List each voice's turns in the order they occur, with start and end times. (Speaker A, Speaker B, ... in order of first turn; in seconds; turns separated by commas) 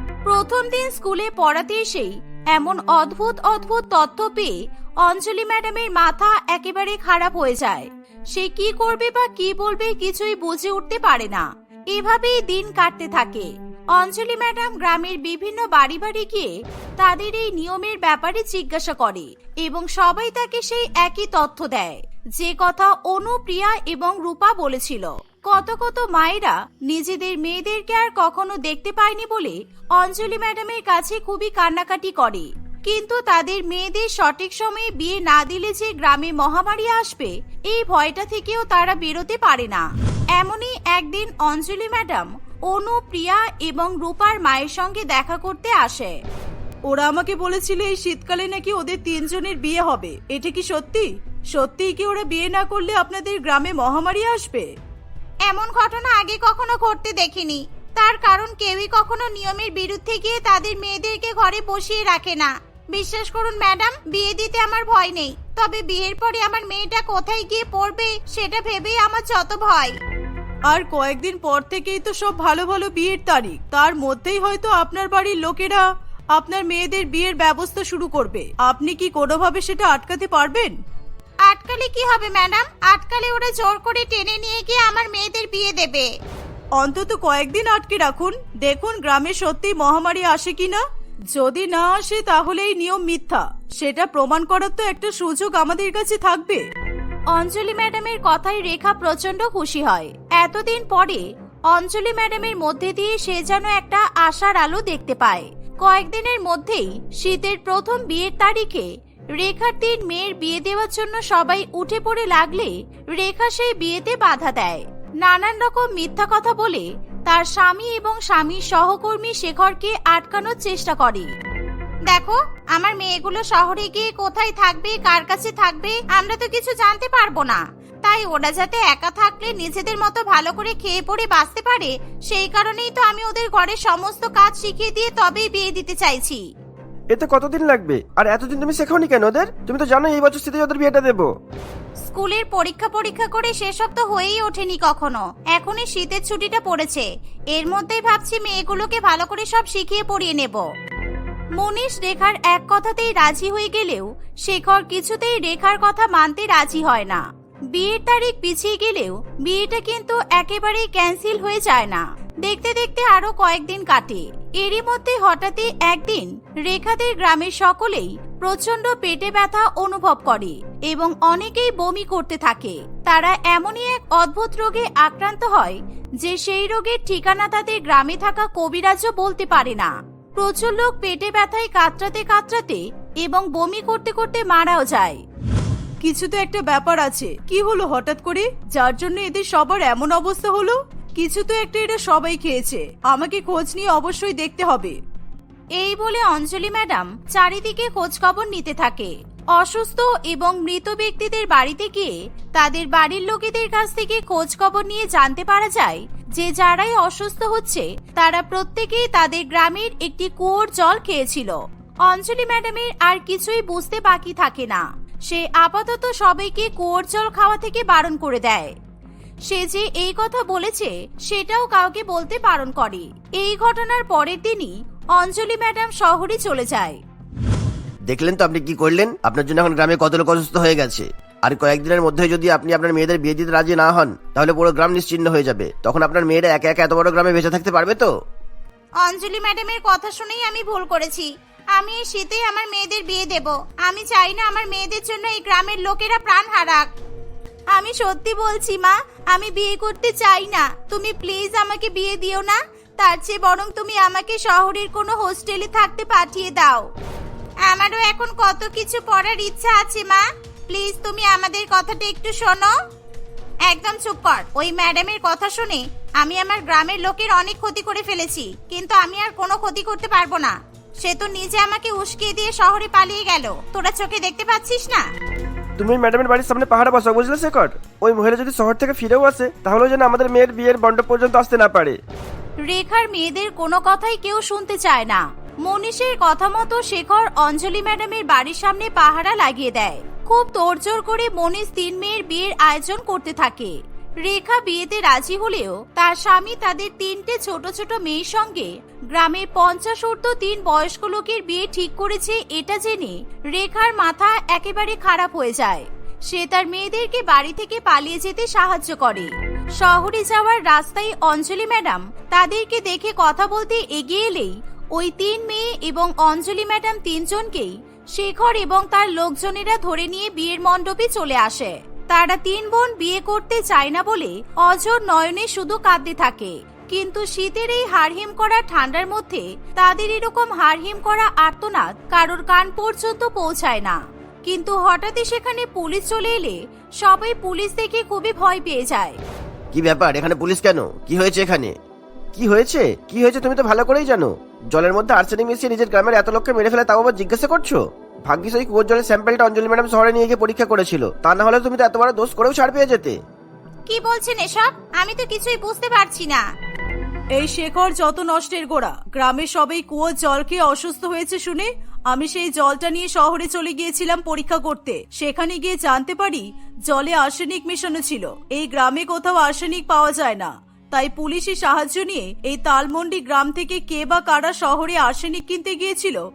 Speaker A: 0.2-46.2, Speaker B: 46.9-51.0, Speaker A: 46.9-51.0, Speaker B: 51.6-54.6, Speaker A: 51.6-53.4, Speaker A: 54.1-54.6, Speaker A: 55.5-70.0, Speaker B: 70.7-75.8, Speaker A: 70.8-75.8, Speaker B: 76.4-80.7, Speaker A: 76.4-80.7, Speaker A: 81.5-86.1, Speaker A: 86.8-90.8, Speaker B: 86.8-90.8, Speaker B: 91.3-96.6, Speaker A: 92.3-96.6, Speaker A: 97.3-121.3, Speaker A: 122.1-136.4, Speaker C: 137.1-141.3, Speaker A: 142.1-150.7, Speaker A: 151.6-185.2, Speaker B: 186.1-190.7, Speaker A: 186.1-193.8, Speaker B: 191.2-194.9, Speaker A: 194.4-194.9, Speaker A: 195.8-218.8, Speaker A: 219.5-227.0, Speaker D: 228.1-238.1, Speaker A: 239.0-246.9, Speaker A: 247.7-256.9, Speaker A: 257.7-262.7, Speaker A: 263.7-275.1, Speaker C: 275.8-282.0, Speaker A: 282.6-339.2, Speaker D: 339.7-341.8, Speaker D: 342.4-344.1, Speaker C: 343.7-344.3, Speaker D: 344.8-347.8, Speaker C: 346.0-347.4, Speaker C: 348.3-353.1, Speaker D: 349.3-353.0, Speaker A: 353.9-356.4, Speaker B: 357.4-370.5, Speaker A: 357.4-361.6, Speaker A: 362.2-365.1, Speaker A: 365.6-366.4, Speaker A: 367.0-376.2, Speaker B: 371.0-376.2